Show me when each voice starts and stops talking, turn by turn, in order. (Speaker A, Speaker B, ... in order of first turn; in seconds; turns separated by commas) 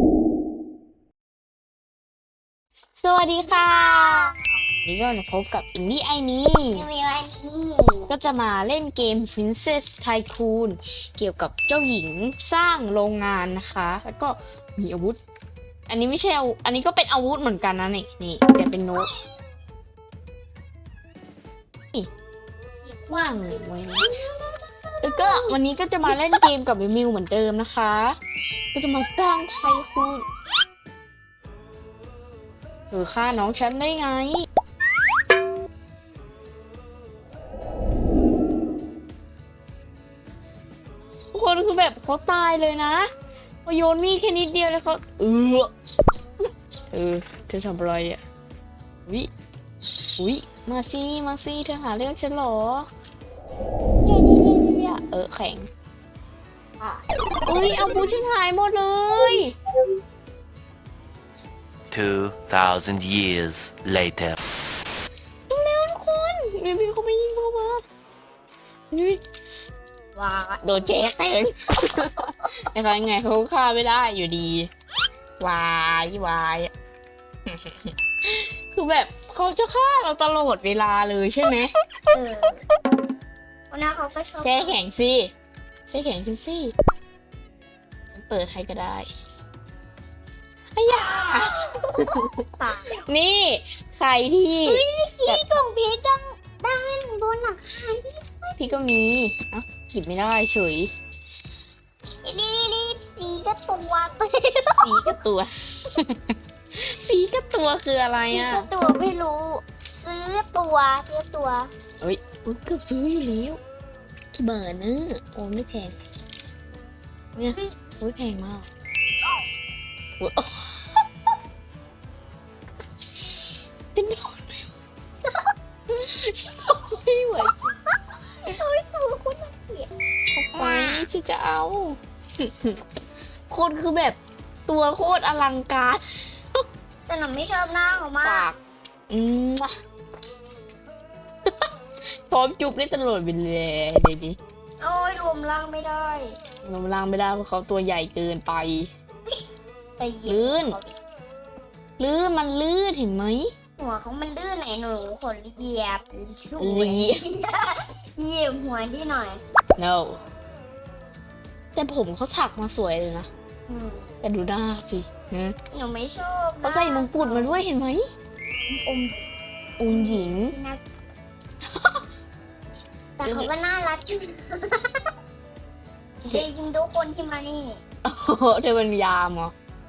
Speaker A: 3.0-6.8, Speaker B: 3.4-4.3, Speaker B: 6.7-8.1, Speaker A: 8.1-15.2, Speaker A: 15.9-19.1, Speaker B: 22.9-25.6, Speaker A: 23.1-24.1, Speaker A: 25.0-28.2, Speaker A: 28.7-30.2, Speaker A: 32.9-34.5, Speaker A: 41.3-43.1, Speaker A: 43.6-45.7, Speaker A: 46.9-48.2, Speaker A: 50.2-52.9, Speaker A: 54.0-55.7, Speaker B: 56.8-58.2, Speaker A: 57.5-59.5, Speaker B: 59.1-59.4, Speaker C: 61.9-64.4, Speaker A: 65.5-67.8, Speaker A: 68.9-69.2, Speaker B: 70.2-70.9, Speaker A: 70.6-74.7, Speaker A: 75.4-76.7, Speaker A: 77.5-81.7, Speaker B: 82.1-82.6, Speaker B: 83.7-84.8, Speaker A: 84.4-85.3, Speaker A: 85.9-86.7, Speaker A: 88.1-89.1, Speaker A: 90.8-92.3, Speaker B: 90.9-93.0, Speaker A: 93.0-95.4, Speaker B: 94.6-98.7, Speaker A: 98.6-100.9, Speaker B: 102.2-105.2, Speaker A: 104.8-106.2, Speaker A: 106.7-108.7, Speaker B: 108.3-111.7, Speaker A: 112.0-113.6, Speaker A: 114.3-116.0, Speaker A: 117.3-118.7, Speaker A: 120.2-120.8, Speaker A: 123.9-124.7, Speaker B: 125.2-125.5, Speaker A: 125.9-127.7, Speaker B: 127.9-129.9, Speaker A: 130.3-132.8, Speaker A: 133.5-136.6, Speaker B: 137.1-138.5, Speaker A: 138.2-138.6, Speaker A: 139.1-139.7, Speaker A: 142.3-144.4, Speaker B: 144.8-146.4, Speaker A: 146.6-148.9, Speaker B: 150.0-151.0, Speaker A: 150.3-150.8, Speaker A: 152.0-153.5, Speaker B: 153.8-159.4, Speaker A: 156.6-157.3, Speaker A: 159.8-160.2, Speaker A: 161.7-163.3, Speaker B: 163.7-164.1, Speaker A: 164.2-165.6, Speaker B: 165.7-167.6, Speaker A: 166.6-168.0, Speaker B: 168.7-169.3, Speaker A: 169.8-170.5, Speaker B: 169.9-170.9, Speaker B: 173.2-175.1, Speaker A: 173.2-173.5, Speaker B: 176.3-177.8, Speaker A: 178.0-179.5